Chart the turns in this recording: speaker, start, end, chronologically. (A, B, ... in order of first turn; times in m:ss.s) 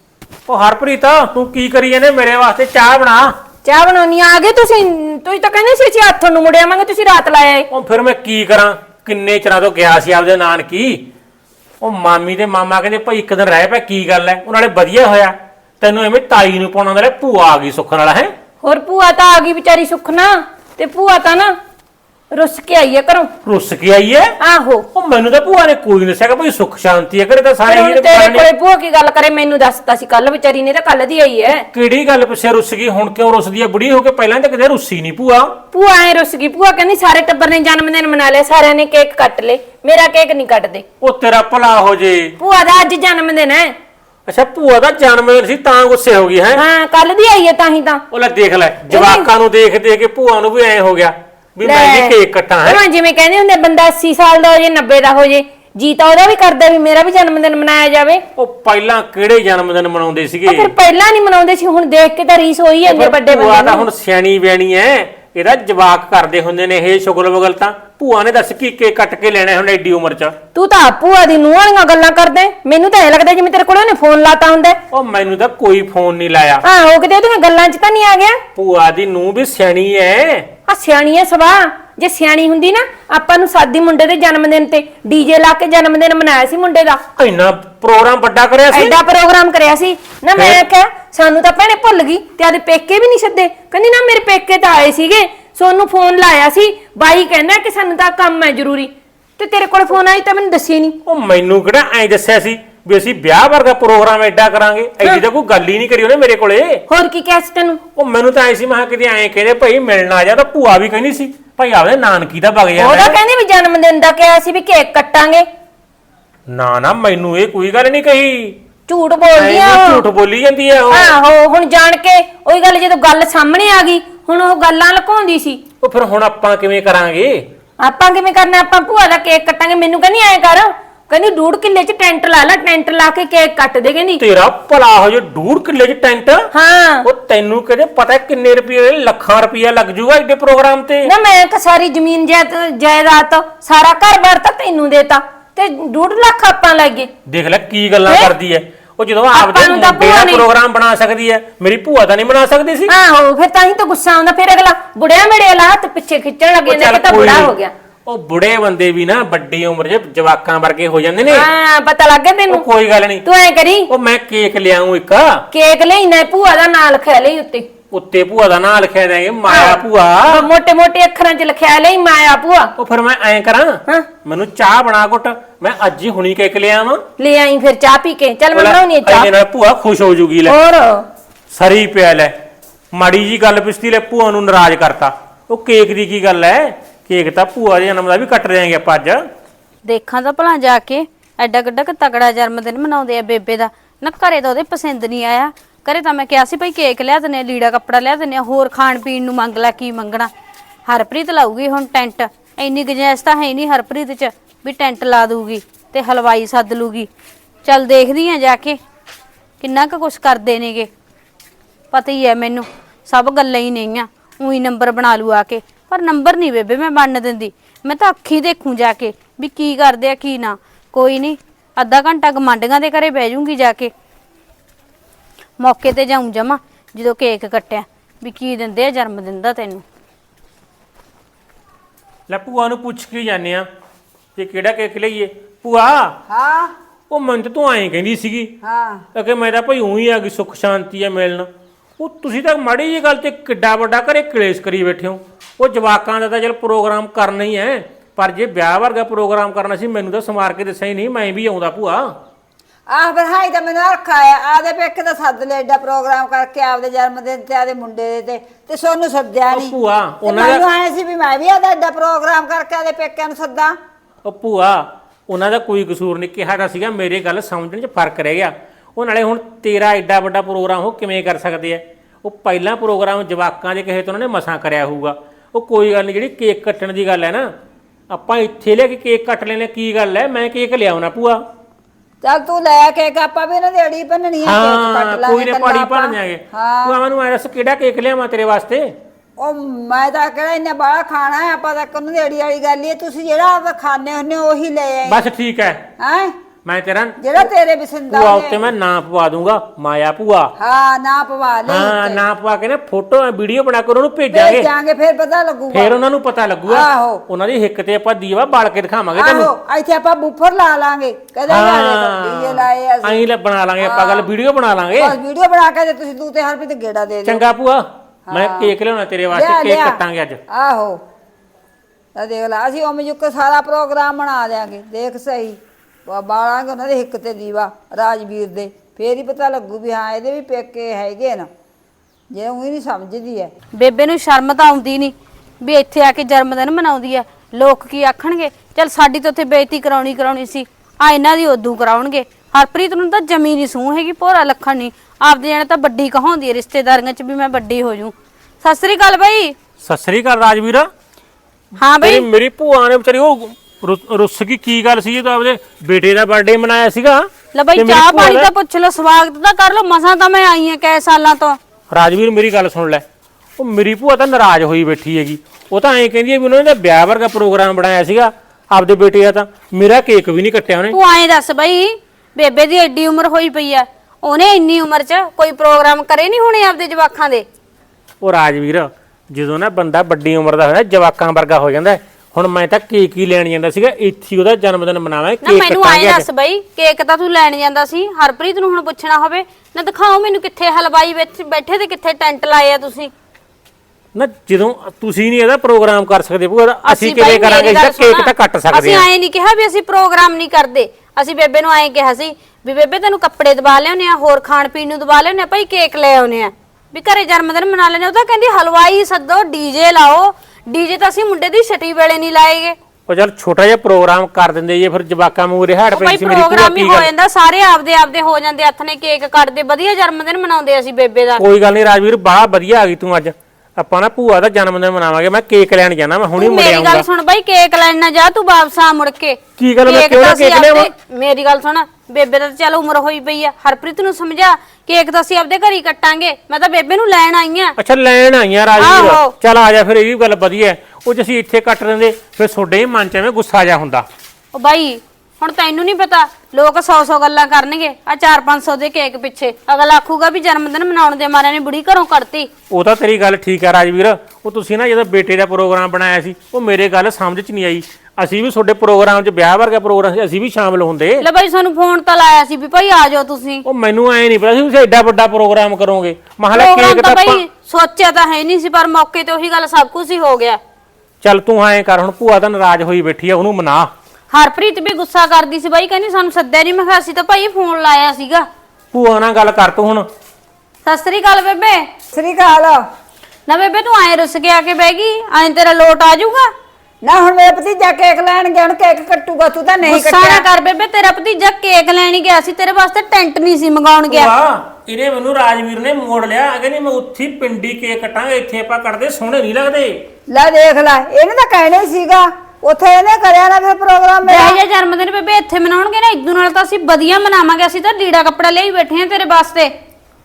0:00.5-0:03.4 A
0:03.6-0:07.7 B
0:07.7-0:11.1 A
0:11.8-0:18.3 A
0:18.6-0:21.6 B
0:22.3-0:23.3 B
0:23.4-0:24.3 A
0:24.4-0:24.9 B
0:24.9-0:28.5 A
0:27.7-0:31.7 B
0:31.7-0:35.6 A
0:35.7-0:40.8 B
0:41.0-0:42.3 A
0:42.4-0:43.8 B
0:44.3-0:46.6 A
0:46.6-0:48.0 B
0:48.1-0:52.8 A
0:48.9-0:49.3 B
0:51.6-0:58.2 B
0:58.4-1:00.7 A
1:00.5-1:03.9 B
1:02.9-1:10.4 A
1:10.6-1:14.8 B
1:14.9-1:16.6 A
1:16.6-1:18.4 B
1:18.6-1:20.5 A
1:20.7-1:27.0 B
1:27.2-1:29.0 A
1:28.7-1:41.0 B
1:30.4-1:30.6 A
1:41.1-1:46.8 A
1:46.9-1:47.8 B
1:48.0-1:53.2 A
1:52.8-1:55.5 B
1:56.5-1:58.6 A
1:58.9-2:00.1 B
1:59.4-2:01.1 A
2:00.9-2:05.6 B
2:05.8-2:07.4 A
2:07.8-2:14.2 B
2:14.2-2:16.5 A
2:16.5-2:17.1 B
2:17.0-2:21.1 A
2:21.0-2:27.1 B
2:27.2-2:32.9 A
2:28.1-2:28.3 B
2:29.3-2:30.4 B
2:32.9-2:37.7 B
2:36.6-2:37.5 A
2:38.1-2:41.5 A
2:41.3-2:42.6 B
2:42.5-2:43.2 A
2:43.2-2:43.9 B
2:43.9-2:45.4 A
2:45.5-2:47.7 B
2:47.9-2:50.5 A
2:49.5-2:52.7 B
2:52.8-2:57.0 A
2:57.2-2:59.3 B
2:58.5-3:00.6 A
3:00.5-3:01.0 B
3:01.5-3:02.4 A
3:02.9-3:09.2 A
3:09.9-3:20.3 C
3:20.9-3:27.1 C
3:27.6-3:28.8 C
3:29.6-3:30.9 C
3:31.9-3:43.9 C
3:45.6-3:49.8 C
3:52.3-3:53.7 A
3:54.4-3:56.1 A
3:56.3-3:56.7 D
3:57.1-3:58.5 A
3:58.6-3:59.0 D
3:59.1-4:12.2 A
4:12.9-4:23.8 D
4:19.5-4:20.6 A
4:24.2-4:37.5 A
4:38.1-4:41.4 A
4:42.2-4:47.0 D
4:44.4-4:48.9 A
4:49.4-4:55.2 D
4:55.1-4:55.8 A
4:56.0-4:56.3 D
4:56.6-4:57.2 A
4:57.2-4:58.7 D
4:58.1-5:00.5 A
5:00.6-5:02.2 D
5:01.7-5:04.7 A
5:04.3-5:06.0 D
5:05.7-5:09.5 A
5:06.7-5:07.2 D
5:09.1-5:13.2 D
5:11.5-5:15.1 A
5:13.8-5:14.3 D
5:15.0-5:17.4 D
5:17.2-5:20.4 A
5:18.3-5:18.7 D
5:19.3-5:21.0 D
5:22.2-5:31.5 D
5:32.3-5:33.5 D
5:33.7-5:49.5 C
5:49.8-5:50.9 A
5:51.8-5:52.3 C
5:52.0-5:58.5 A
5:57.5-6:01.6 C
6:01.9-6:03.0 A
6:03.6-6:11.0 A
6:10.9-6:17.5 C
6:18.2-6:26.2 A
6:25.4-6:33.1 C
6:34.2-6:39.0 A
6:36.8-6:52.8 C
6:53.1-6:57.1 A
6:55.9-7:01.4 C
7:01.4-7:07.0 A
7:06.4-7:17.8 C
7:09.6-7:10.9 A
7:17.8-7:24.0 A
7:18.8-7:19.3 C
7:24.5-7:32.5 C
7:32.7-7:41.2 A
7:41.2-7:43.6 C
7:43.6-7:47.4 A
7:46.5-7:50.6 C
7:51.2-7:53.9 A
7:54.3-7:58.5 C
7:58.9-8:00.1 A
8:00.9-8:01.9 C
8:02.1-8:02.8 D
8:03.5-8:06.5 C
8:07.0-8:10.5 D
8:09.8-8:14.3 C
8:14.1-8:20.0 A
8:20.3-8:24.6 D
8:24.2-8:29.7 C